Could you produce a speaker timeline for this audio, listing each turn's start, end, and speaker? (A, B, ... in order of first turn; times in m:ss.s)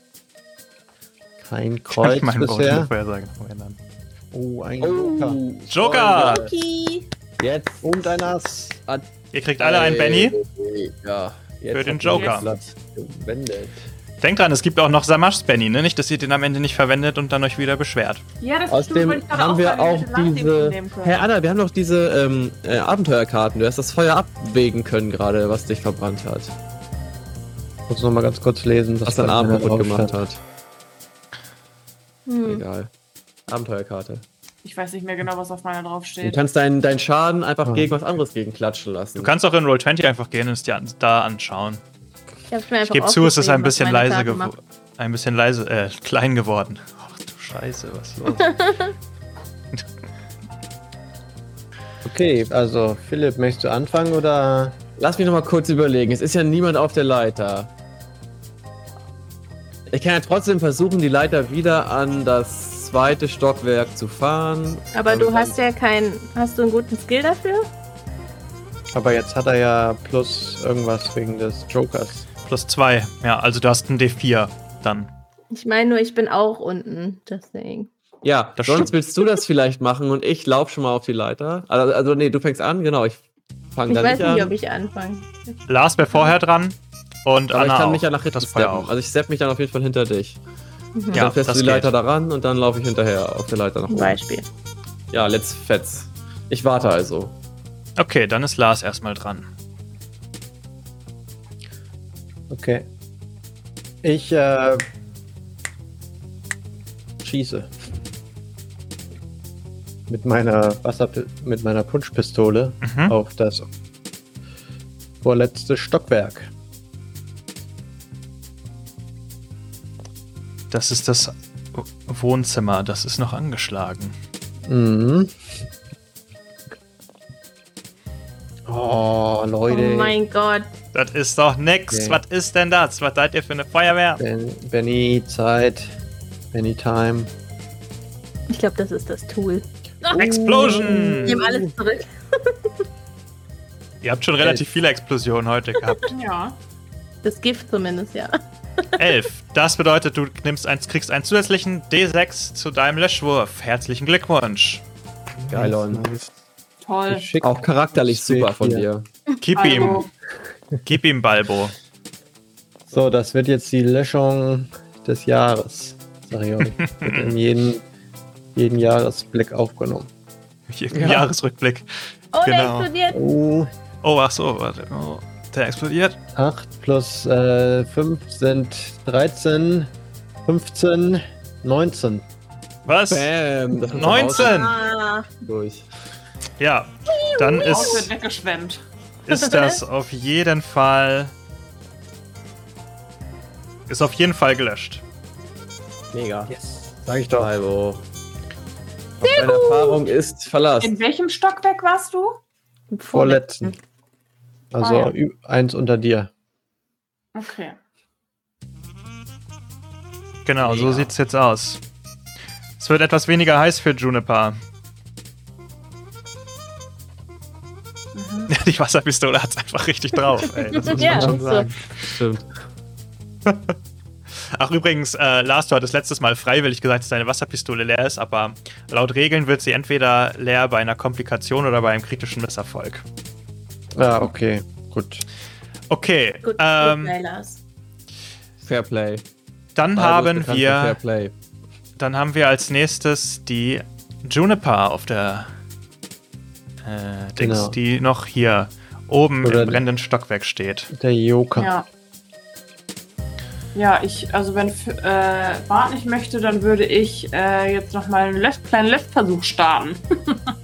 0:01.4-0:02.9 A
0:01.9-0:03.8 B
0:04.3-0:05.4 A
0:04.8-0:06.5 C
0:05.7-0:06.4 B
0:06.2-0:07.1 D
0:07.4-0:09.0 C
0:07.8-0:08.7 A
0:09.3-0:10.4 B
0:09.6-0:13.8 C
0:11.7-0:12.5 B
0:12.1-0:12.5 E
0:14.2-0:18.2 B
0:18.4-0:21.3 E
0:18.7-0:26.5 C
0:27.9-0:30.2 A
0:29.0-0:30.4 C
0:32.3-0:32.6 D
0:32.4-0:32.9 C
0:33.5-0:34.2 C
0:34.6-0:36.4 E
0:36.2-0:39.3 C
0:37.6-0:37.9 A
0:39.2-0:41.8 B
0:42.5-0:44.5 D
0:42.8-0:48.6 B
0:48.4-0:48.9 D
0:52.0-0:54.8 A
0:55.0-0:57.7 C
0:59.9-1:05.6 C
1:04.9-1:07.7 D
1:08.9-1:12.2 A
1:12.4-1:15.1 B
1:15.5-1:17.9 D
1:18.2-1:23.2 C
1:18.6-1:18.9 B
1:23.7-1:24.5 C
1:23.9-1:25.6 D
1:25.7-1:28.9 B
1:27.5-1:30.4 C
1:30.9-1:31.3 D
1:31.1-1:34.2 C
1:31.1-1:31.9 B
1:33.9-1:34.4 D
1:35.1-1:37.3 C
1:38.0-1:39.4 B
1:42.5-1:42.8 A
1:44.0-1:44.8 A
1:47.2-1:47.7 A
1:50.1-1:53.7 A
1:52.8-1:53.1 B
1:55.2-1:56.5 A
2:00.7-2:04.1 B
2:04.6-2:05.3 A
2:08.7-2:10.2 A
2:09.7-2:10.7 D
2:10.9-2:14.2 B
2:11.9-2:12.2 A
2:14.2-2:15.9 A
2:16.5-2:17.3 A
2:18.5-2:22.5 D
2:20.1-2:21.7 A
2:20.2-2:21.4 B
2:24.0-2:26.0 B
2:26.1-2:26.6 E
2:27.2-2:28.4 D
2:29.0-2:34.8 B
2:35.4-2:36.3 A
2:35.5-2:36.0 C
2:36.8-2:37.3 E
2:37.1-2:38.9 A
2:37.4-2:39.1 C
2:39.4-2:40.0 B
2:39.5-2:40.1 E
2:40.8-2:41.7 B
2:42.9-2:47.8 A
2:46.6-2:47.4 B
2:48.5-2:50.1 A
2:50.7-2:51.9 B
2:50.9-2:51.3 C
2:52.3-2:53.2 D
2:52.4-2:52.9 B
2:53.1-2:53.7 A
2:54.0-2:56.2 B
2:56.3-2:59.9 A
3:00.4-3:02.2 A
3:02.8-3:03.3 B
3:03.1-3:04.6 C
3:03.9-3:04.8 B
3:04.3-3:05.3 D
3:05.4-3:05.9 C
3:06.6-3:08.1 B
3:07.1-3:07.9 D
3:07.6-3:08.8 E
3:09.3-3:11.3 B
3:09.3-3:09.8 D
3:13.9-3:15.0 B
3:16.1-3:16.5 C
3:16.5-3:17.5 A
3:17.4-3:18.0 C
3:19.2-3:21.0 C
3:19.2-3:20.0 D
3:20.8-3:22.4 E
3:22.9-3:23.8 D
3:23.1-3:23.7 A
3:24.7-3:26.3 A
3:27.3-3:27.8 E
3:30.4-3:31.8 B
3:30.6-3:31.1 C
3:32.8-3:34.6 B
3:38.1-3:38.5 E
3:38.5-3:41.7 B
3:40.8-3:41.7 D
3:40.9-3:42.5 C
3:43.4-3:43.7 B
3:44.5-3:53.0 B
3:54.0-3:55.2 A
3:55.9-3:57.1 B
3:56.4-3:57.6 D
3:58.6-3:59.2 C
3:59.8-4:01.0 B
4:00.0-4:01.3 C
4:02.0-4:05.5 B
4:06.8-4:10.9 B
4:07.4-4:07.8 A
4:09.4-4:09.8 A
4:10.9-4:11.7 A
4:11.6-4:11.8 E
4:13.7-4:20.4 E